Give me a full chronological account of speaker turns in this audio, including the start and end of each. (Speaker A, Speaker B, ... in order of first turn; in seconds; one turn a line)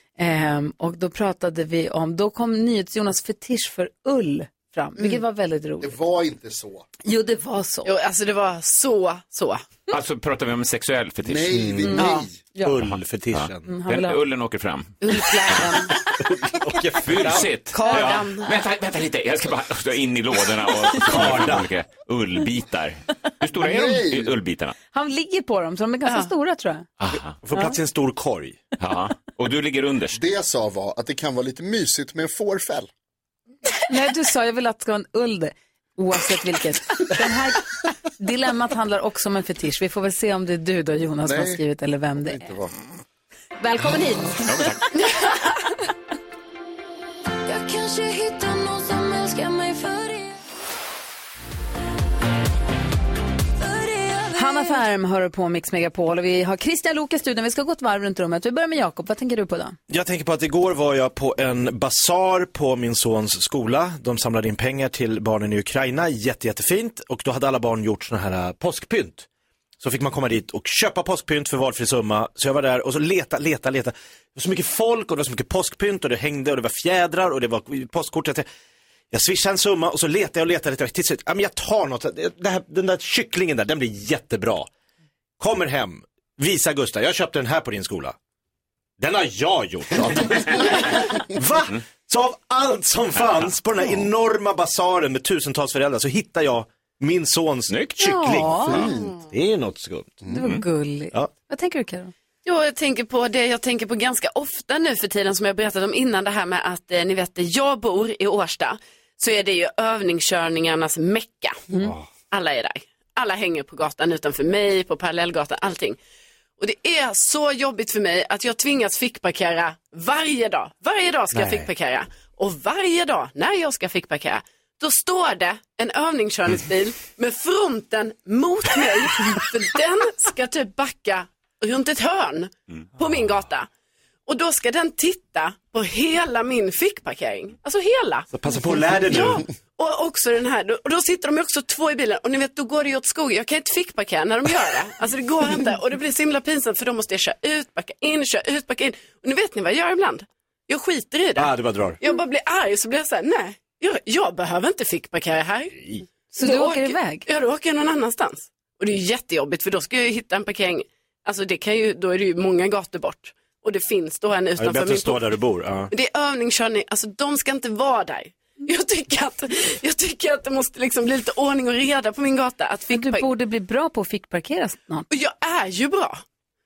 Speaker A: 0.2-6.0
Speaker B: 5.8-6.8
Speaker A: 7.0-7.9
Speaker C: 7.8-9.6
Speaker D: 9.9-11.6
Speaker B: 11.2-12.3
Speaker E: 11.5-13.8
Speaker A: 11.8-12.8
Speaker D: 12.9-15.6
Speaker A: 13.6-14.2
Speaker C: 15.0-15.9
Speaker A: 15.6-15.9
Speaker E: 16.2-17.6
Speaker D: 17.0-24.7
Speaker C: 17.7-18.6
Speaker E: 20.9-21.7
Speaker B: 23.5-24.4
Speaker A: 24.9-26.9
Speaker D: 27.0-27.4
Speaker E: 27.4-28.6
Speaker D: 28.8-30.2
Speaker B: 30.1-32.9
Speaker A: 33.9-42.4
Speaker B: 41.2-41.6
Speaker B: 42.1-42.7
Speaker A: 43.6-44.7
Speaker D: 44.5-44.9
Speaker C: 44.9-45.4
Speaker F: 47.5-50.4
Speaker F: 53.6-54.6
Speaker A: 54.3-59.8
Speaker E: 59.9-69.2
Speaker E: 69.8-78.5
Speaker E: 79.1-84.7
Speaker E: 85.4-88.1
Speaker E: 89.0-100.2
Speaker D: 97.7-98.0
Speaker A: 98.0-98.8
Speaker B: 98.7-99.2
Speaker A: 100.3-102.1
Speaker C: 102.4-111.6
Speaker E: 111.8-112.1
Speaker C: 112.3-116.0
Speaker C: 116.6-133.7
Speaker E: 121.3-121.7
Speaker C: 134.3-138.3
Speaker E: 138.3-139.4
Speaker C: 139.0-155.8
Speaker E: 151.3-152.0
Speaker A: 156.3-157.2
Speaker C: 156.4-165.4
Speaker E: 164.6-165.9
Speaker C: 165.9-173.3
Speaker A: 172.9-175.1
Speaker C: 175.1-176.2